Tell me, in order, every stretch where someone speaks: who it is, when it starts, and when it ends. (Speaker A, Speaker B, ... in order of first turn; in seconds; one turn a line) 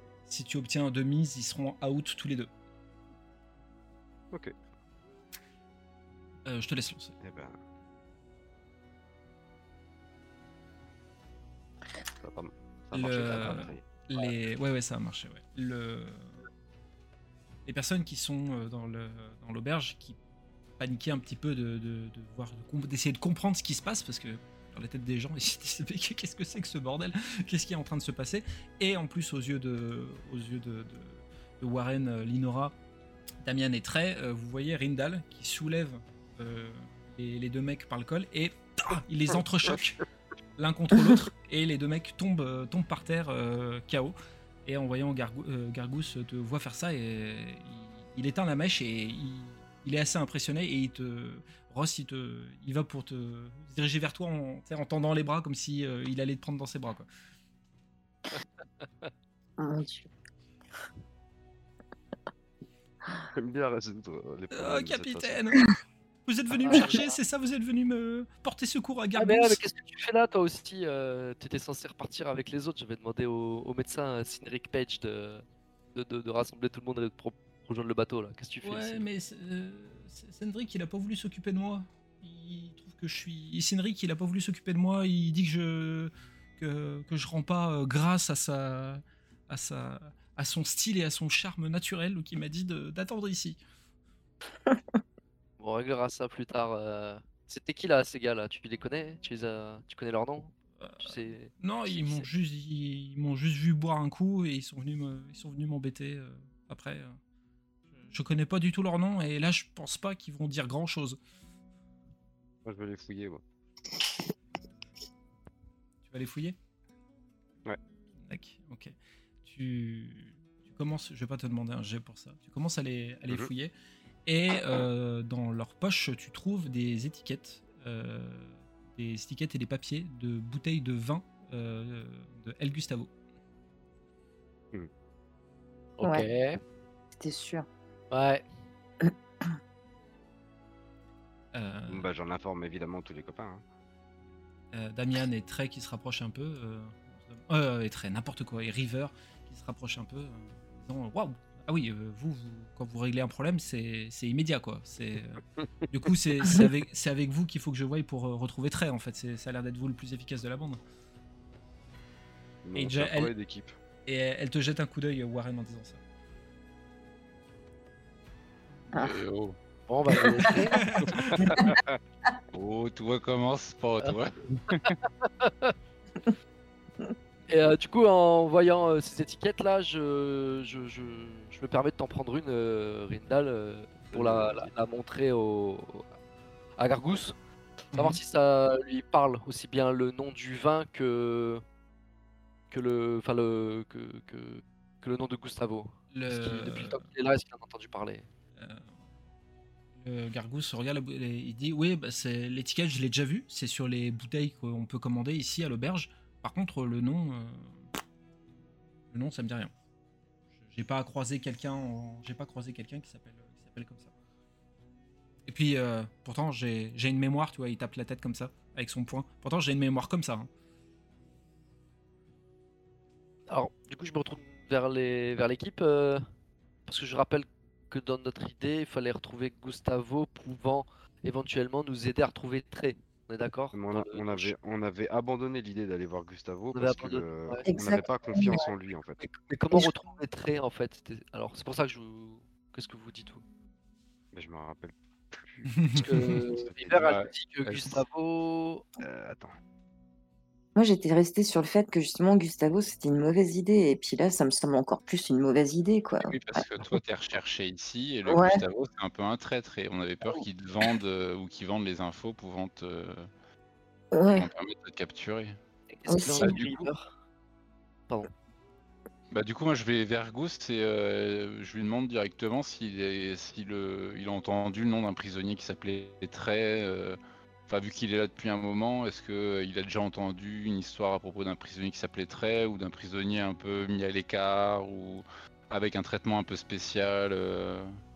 Speaker A: 0.2-2.5
Speaker A: 6.5-7.1
Speaker B: 7.2-7.6
Speaker B: 12.2-13.8
Speaker A: 12.9-16.4
Speaker A: 17.6-20.2
Speaker A: 20.8-32.8
Speaker A: 33.4-40.0
Speaker A: 40.6-44.1
Speaker A: 44.6-57.1
Speaker C: 59.6-60.1
Speaker B: 63.3-65.4
Speaker A: 64.5-65.7
Speaker A: 66.2-69.6
Speaker D: 66.5-67.0
Speaker D: 69.2-79.0
Speaker A: 78.6-93.6
Speaker D: 95.6-102.3
Speaker A: 100.8-107.2
Speaker A: 108.0-111.2
Speaker B: 112.6-113.4
Speaker A: 116.0-116.6
Speaker A: 118.2-123.7
Speaker A: 124.2-133.1
Speaker D: 136.0-136.6
Speaker C: 137.2-137.7
Speaker D: 138.1-138.4
Speaker C: 139.0-139.5
Speaker A: 141.5-142.1
Speaker B: 141.9-143.6
Speaker A: 144.7-160.8
Speaker B: 162.6-163.7
Speaker A: 162.7-163.3
Speaker A: 164.0-166.0
Speaker E: 168.9-169.6
Speaker D: 169.9-170.8
Speaker A: 170.8-171.4
Speaker B: 171.2-172.0
Speaker E: 172.5-175.0
Speaker D: 174.7-175.7
Speaker D: 177.5-186.1
Speaker B: 184.1-184.7
Speaker D: 186.8-187.3
Speaker A: 187.9-188.2
Speaker D: 187.9-191.6
Speaker D: 192.7-198.2
Speaker A: 196.1-197.0
Speaker A: 198.6-198.9
Speaker A: 199.9-207.9
Speaker A: 209.1-209.7
Speaker A: 210.5-214.1
Speaker A: 215.5-220.5
Speaker D: 223.5-226.2
Speaker D: 226.8-234.5
Speaker B: 233.7-239.2
Speaker D: 236.7-237.7
Speaker C: 237.7-238.6
Speaker D: 239.2-243.4
Speaker B: 244.3-247.1
Speaker A: 245.7-246.3
Speaker D: 245.9-248.8
Speaker E: 247.0-247.9
Speaker B: 249.0-249.5
Speaker C: 250.8-256.6
Speaker E: 256.2-263.3
Speaker C: 258.3-258.6
Speaker C: 264.1-264.5
Speaker E: 264.3-265.6
Speaker D: 265.9-267.1
Speaker C: 266.1-266.6
Speaker E: 266.4-266.9
Speaker E: 269.3-287.9